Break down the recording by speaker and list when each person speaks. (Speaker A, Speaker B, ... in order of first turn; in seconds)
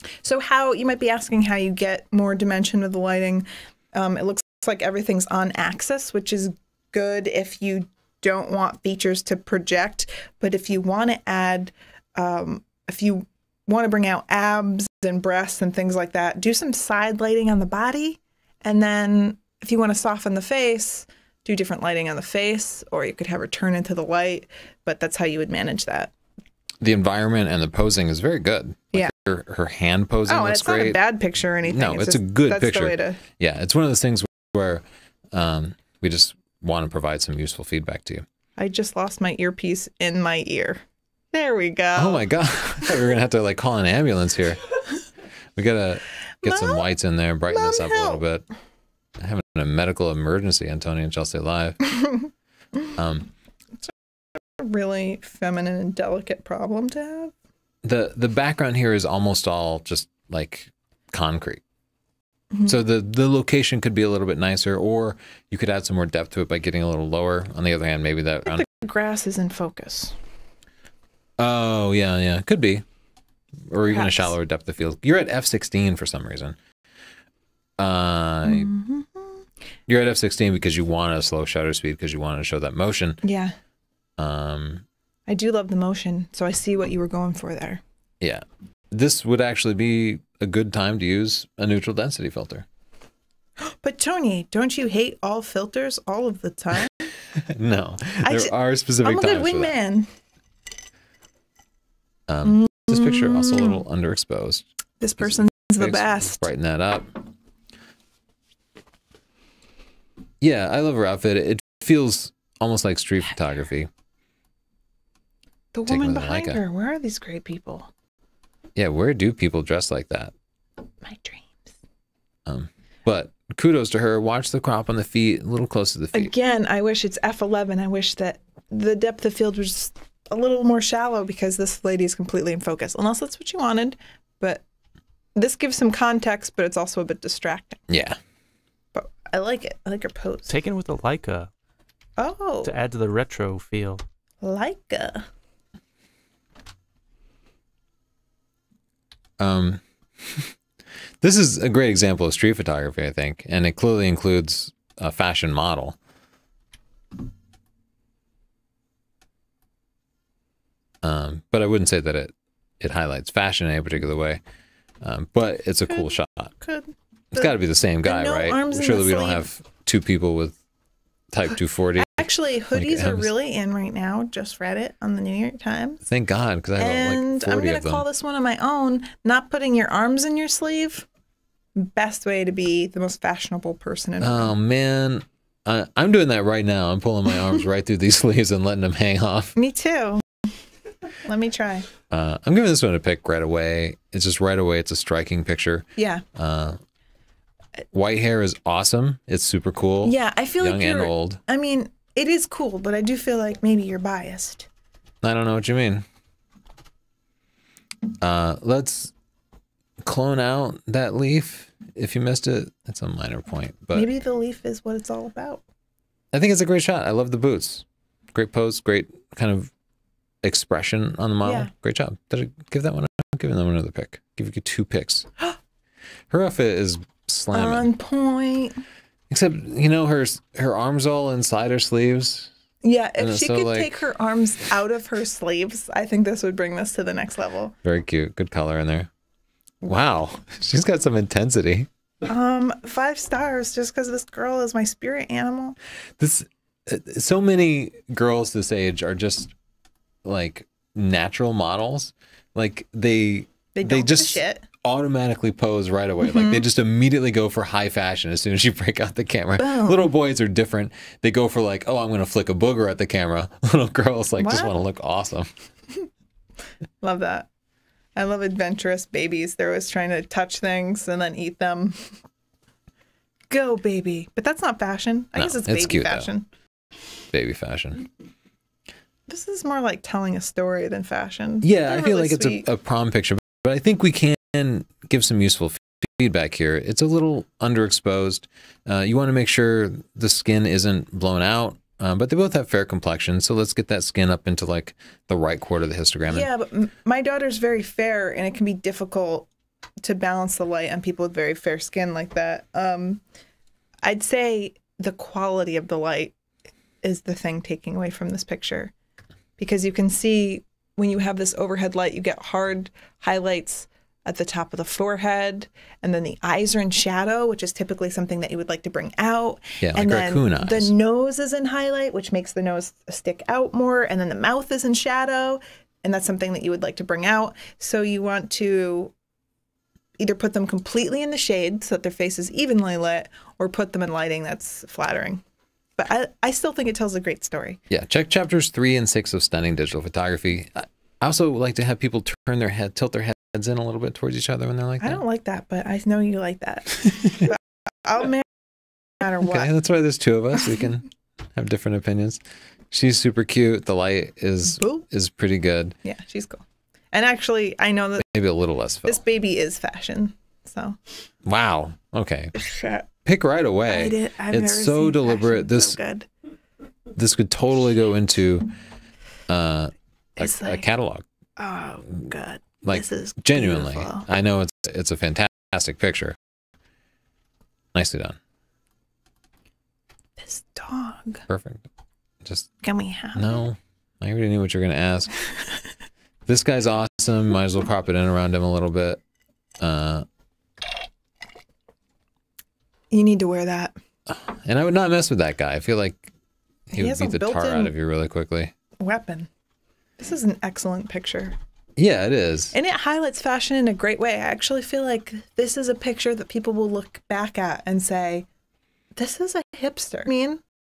Speaker A: 0.2-26.1, 30.3-33.2, 38.6-42.3, 46.4-46.8, 47.5-48.2, 54.4-57.3, 68.5-70.2, 73.9-74.3, 78.5-79.4, 83.2-83.6, 85.3-87.8, 93.6-97.0, 98.2-98.5, 99.0-100.1, 102.5-103.8, 105.0-106.5, 115.7-117.9, 121.0-121.7, 126.1-134.6, 135.3-137.8, 138.9-140.6, 142.2-142.7, 144.4-145.3, 165.9-169.4, 172.0-176.0, 176.8-181.1, 181.8-184.5, 189.6-190.2, 191.2-191.9, 196.0-196.2, 200.0-204.7, 213.9-215.6, 221.4-221.7, 227.5-228.8, 232.8-237.8, 242.3-245.8, 253.8-254.7, 256.2-256.6, 259.6-260.1, 264.4-264.7, 267.0-267.5, 268.2-272.1, 273.5-276.5, 279.3-282.7, 296.3-299.5, 300.0-303.2, 304.0-306.4, 307.0-308.9, 309.6-329.1, 330.2-335.4, 336.0-337.8, 345.0-348.5, 349.2-349.7, 354.7-355.0, 356.0-358.3, 359.1-361.0, 362.6-363.1, 363.9-366.3, 370.4-370.8, 371.6-374.3, 380.4-381.4, 382.8-383.6, 393.1-394.0, 396.9-397.9, 399.0-399.5, 400.2-401.6, 402.7-408.5, 409.1-410.6
Speaker B: 26.8-31.0, 31.7-38.3, 42.0-44.6, 45.6-48.5, 49.2-51.8, 53.0-53.3, 57.8-61.6, 62.7-68.7, 71.4-72.8, 73.7-76.6, 77.8-78.7, 79.9-83.2, 84.2-84.8, 88.2-92.7, 97.3-99.7, 102.3-104.7, 105.2-107.2, 110.4-113.9, 115.9-116.6, 118.8-120.3, 122.5-126.3, 137.9-138.2, 149.4-150.5, 151.2-156.0, 161.0-164.4, 165.0-166.5, 167.3-170.6, 171.3-173.3, 176.0-178.1, 184.2-189.6, 192.1-196.8, 197.9-201.4, 205.2-206.1, 208.2-209.1, 210.0-214.1, 216.3-219.7, 220.4-225.3, 226.3-227.9, 229.3-232.5, 233.2-234.1, 237.8-239.1, 239.8-241.9, 246.2-249.5, 250.2-265.5, 275.4-276.3, 277.3-278.1, 281.6-296.5, 319.8-320.9, 337.9-345.2, 349.4-352.4, 352.9-356.0, 358.2-359.2, 361.4-362.6, 363.2-366.0, 367.1-368.7, 369.5-371.2, 372.8-376.4, 377.9-378.4, 381.5-381.9, 382.4-382.7, 383.4-385.4, 386.5-389.2, 389.8-390.3, 394.3-396.3, 396.9-398.7, 402.0-402.8
Speaker C: 140.5-141.5, 142.6-144.0